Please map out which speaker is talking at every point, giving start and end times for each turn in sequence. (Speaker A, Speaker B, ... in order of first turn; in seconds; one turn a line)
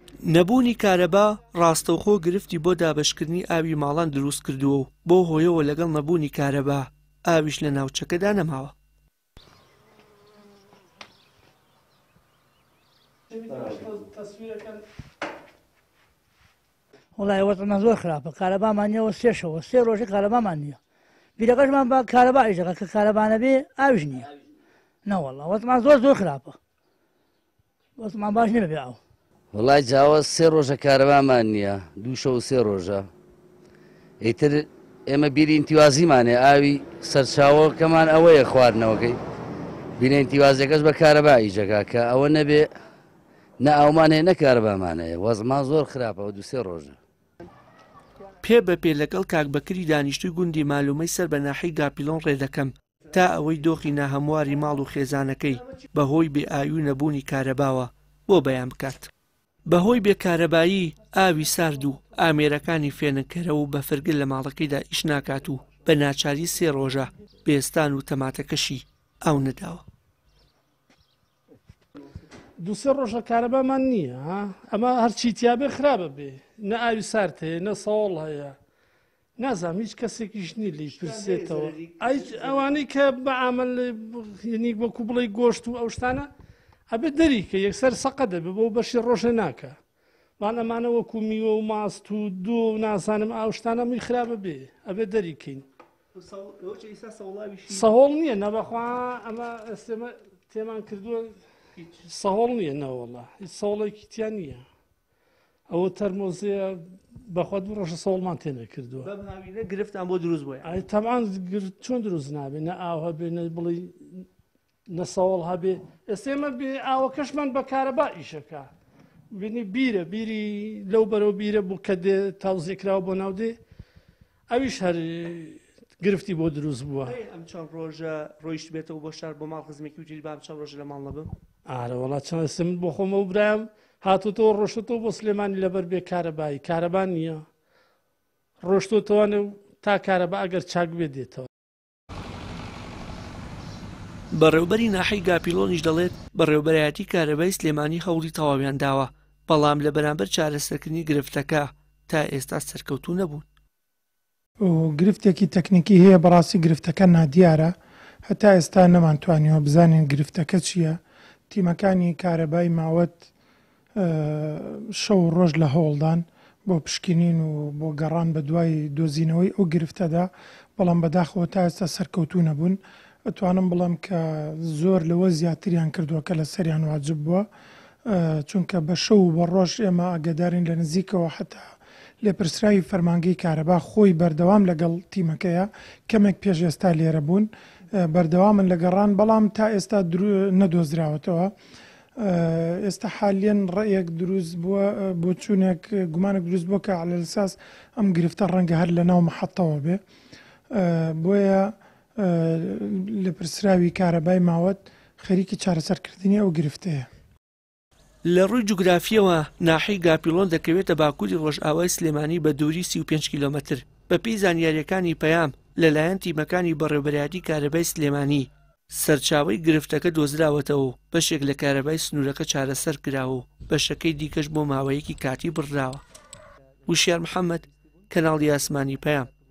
Speaker A: 0.2-8.7
Speaker B: 13.3-14.8
Speaker C: 17.2-20.8
Speaker C: 21.4-24.3
Speaker C: 25.0-26.6
Speaker C: 28.0-29.0
Speaker D: 29.5-33.1
Speaker D: 34.2-39.2
Speaker D: 40.0-42.7
Speaker D: 43.6-47.0
Speaker A: 48.4-59.1
Speaker A: 59.7-69.8
Speaker B: 72.6-78.5
Speaker B: 79.4-86.3
Speaker A: 80.9-82.7
Speaker B: 86.9-89.8
Speaker B: 90.4-95.7
Speaker A: 96.2-97.9
Speaker B: 97.7-101.3
Speaker B: 102.0-104.6
Speaker B: 105.7-109.1
Speaker A: 109.0-110.8
Speaker B: 110.6-114.2
Speaker B: 114.9-118.7
Speaker B: 119.3-123.6
Speaker B: 124.5-127.2
Speaker A: 127.0-131.3
Speaker B: 131.7-137.4
Speaker B: 138.6-141.5
Speaker A: 144.3-153.4
Speaker E: 154.6-157.7
Speaker E: 158.2-163.3
Speaker E: 163.9-177.5
Speaker E: 178.1-191.5
Speaker E: 192.2-200.0
Speaker E: 200.7-207.1
Speaker A: 208.2-226.0
Speaker A: 226.8-229.3